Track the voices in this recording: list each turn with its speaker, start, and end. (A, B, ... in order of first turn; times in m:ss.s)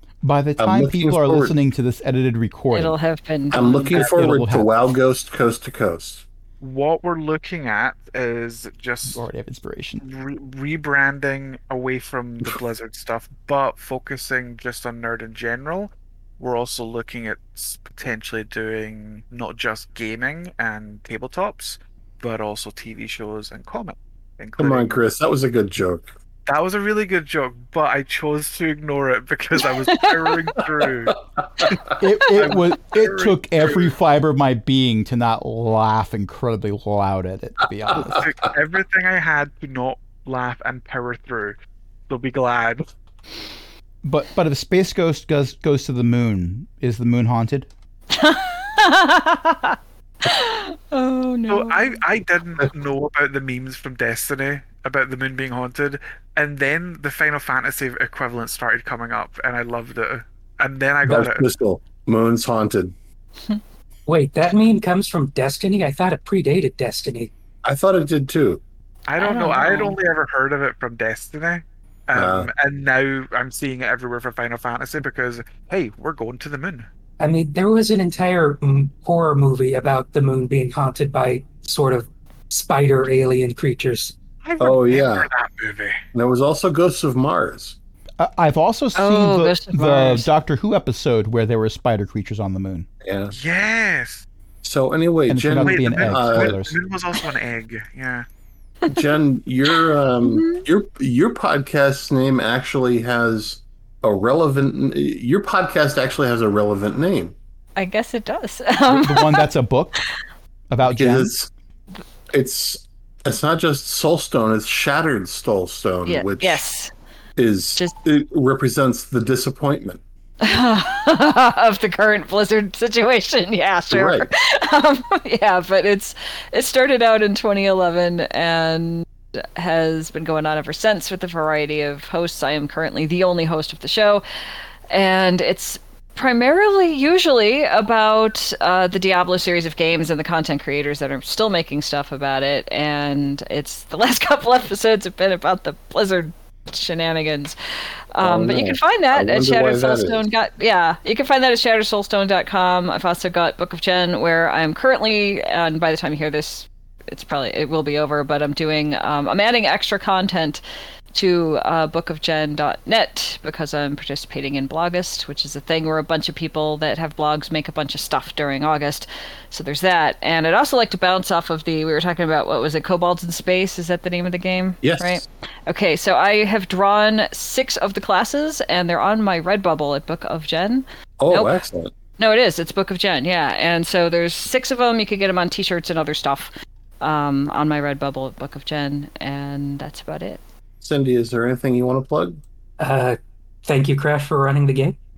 0:00.2-0:03.0 A
0:00.6-0:01.5 B
0:02.7-0:04.0 C
0:03.5-0:06.2 B
0:03.9-0:04.7 A
0:06.6-0:09.2 D
0:09.0-0:10.0 A
0:10.0-0:25.0 D
0:24.6-0:26.1 B
0:26.5-0:31.8 D
0:29.9-0:30.3 C
0:32.0-0:38.2 A
0:32.3-0:33.9 D
0:37.9-0:41.6 D
0:42.1-0:42.8 D
0:44.0-0:47.7 A
0:48.1-0:52.0 C
0:51.5-1:01.5 D
1:01.0-1:02.9 B
1:04.1-1:07.3 E
1:07.6-1:08.6 B
1:09.1-1:16.9 D
1:09.2-1:10.0 C
1:12.2-1:12.5 B
1:17.2-1:24.1 E
1:24.4-1:26.0 D
1:24.6-1:25.3 B
1:26.1-1:27.8 B
1:28.2-1:32.9 A
1:28.9-1:30.3 C
1:33.0-1:33.3 B
1:33.3-1:34.2 D
1:34.6-1:36.5 B
1:35.3-1:36.8 A
1:35.6-1:38.2 D
1:38.9-1:47.3 B
1:40.2-1:40.6 C
1:47.8-1:49.5 C
1:48.9-1:50.0 A
1:50.7-1:51.3 A
1:50.8-1:51.5 B
1:52.3-1:56.6 B
1:56.0-1:56.9 C
1:57.4-2:00.0 B
2:00.4-2:14.2 C
2:03.9-2:04.3 B
2:14.9-2:27.6 C
2:28.1-2:40.6 C
2:28.2-2:30.3 B
2:41.1-3:01.6 C
2:54.8-2:55.2 B
3:01.2-3:01.9 B
3:02.2-3:10.4 C
3:10.8-3:12.4 B
3:12.8-3:15.0 E